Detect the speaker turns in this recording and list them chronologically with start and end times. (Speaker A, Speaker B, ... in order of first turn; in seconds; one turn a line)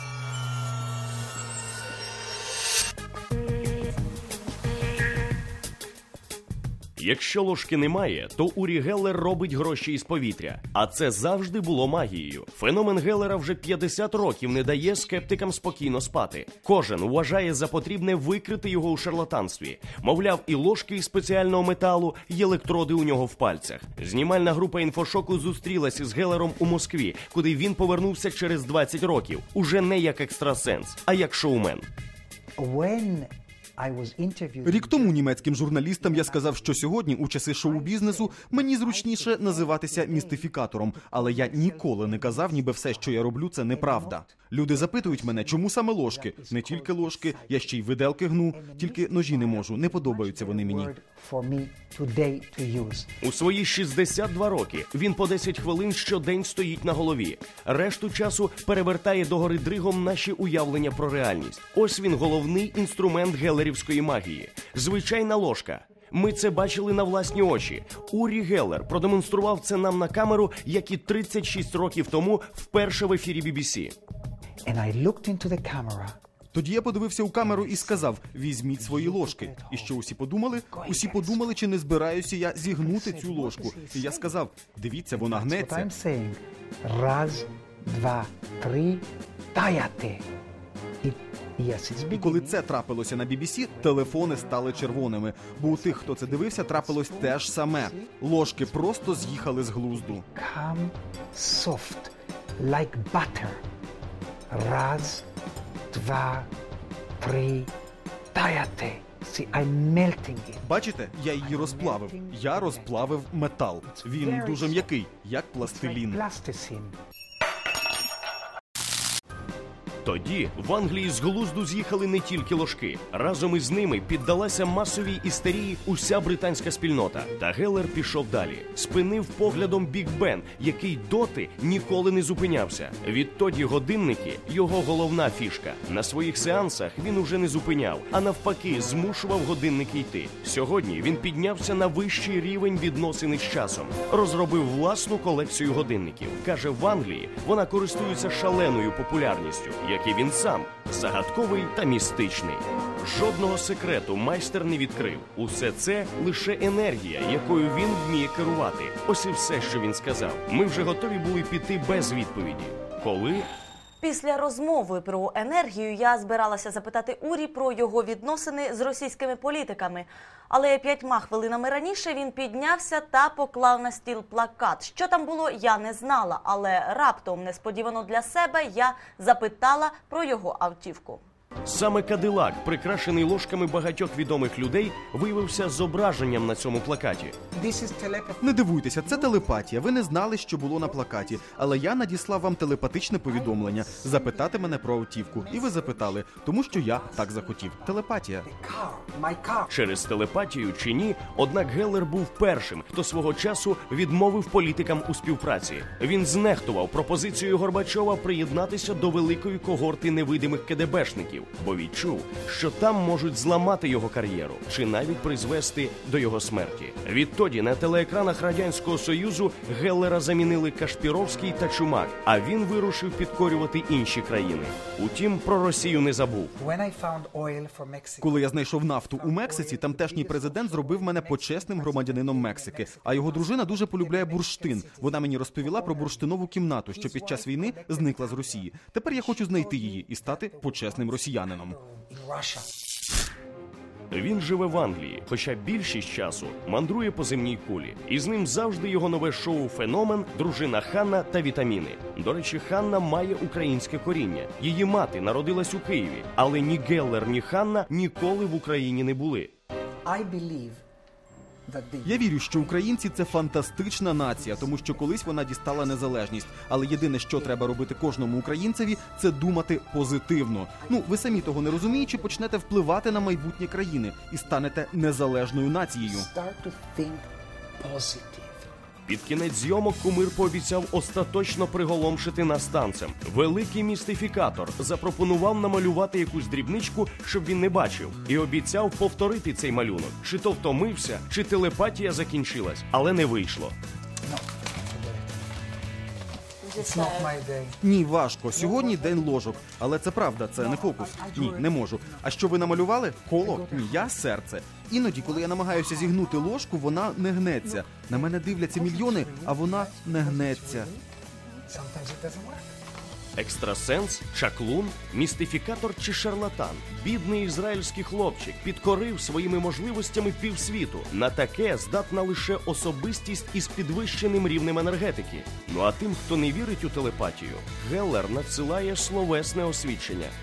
Speaker A: 7.0-31.8
Speaker B: 32.6-36.9
Speaker C: 34.6-50.9
Speaker B: 37.6-47.7
Speaker B: 48.5-53.1
Speaker A: 53.2-73.9
Speaker B: 74.6-76.2
Speaker C: 76.5-85.9
Speaker B: 77.4-80.0
Speaker B: 80.7-81.6
Speaker B: 82.6-84.4
Speaker B: 85.1-90.2
Speaker B: 91.0-92.7
Speaker C: 92.1-100.2
Speaker B: 93.7-103.6
Speaker B: 104.5-105.2
Speaker B: 105.9-106.5
Speaker B: 107.2-107.7
Speaker B: 108.3-110.7
Speaker C: 110.6-116.2
Speaker B: 111.2-113.2
Speaker B: 113.8-114.9
Speaker B: 115.6-116.9
Speaker A: 120.0-163.5
Speaker D: 164.0-181.2
Speaker A: 181.7-187.3
Speaker B: 187.5-191.9
Speaker C: 188.4-198.4
Speaker B: 193.2-199.7
Speaker A: 199.7-226.5
Speaker B: 226.5-242.7
Speaker C: 228.2-241.8
Speaker A: 244.1-259.5
Speaker B: 260.0-260.8
Speaker B: 261.6-268.2
Speaker C: 262.0-276.3
Speaker B: 270.8-272.5
Speaker B: 275.9-277.3
Speaker B: 277.8-278.7
Speaker A: 279.1-293.7
Speaker B: 294.2-295.5
Speaker D: 296.7-297.3
Speaker B: 296.7-297.8
Speaker C: 297.8-310.9
Speaker B: 298.5-304.2
Speaker B: 305.0-306.5
Speaker B: 307.6-311.0
Speaker B: 311.6-312.7
Speaker A: 313.4-330.3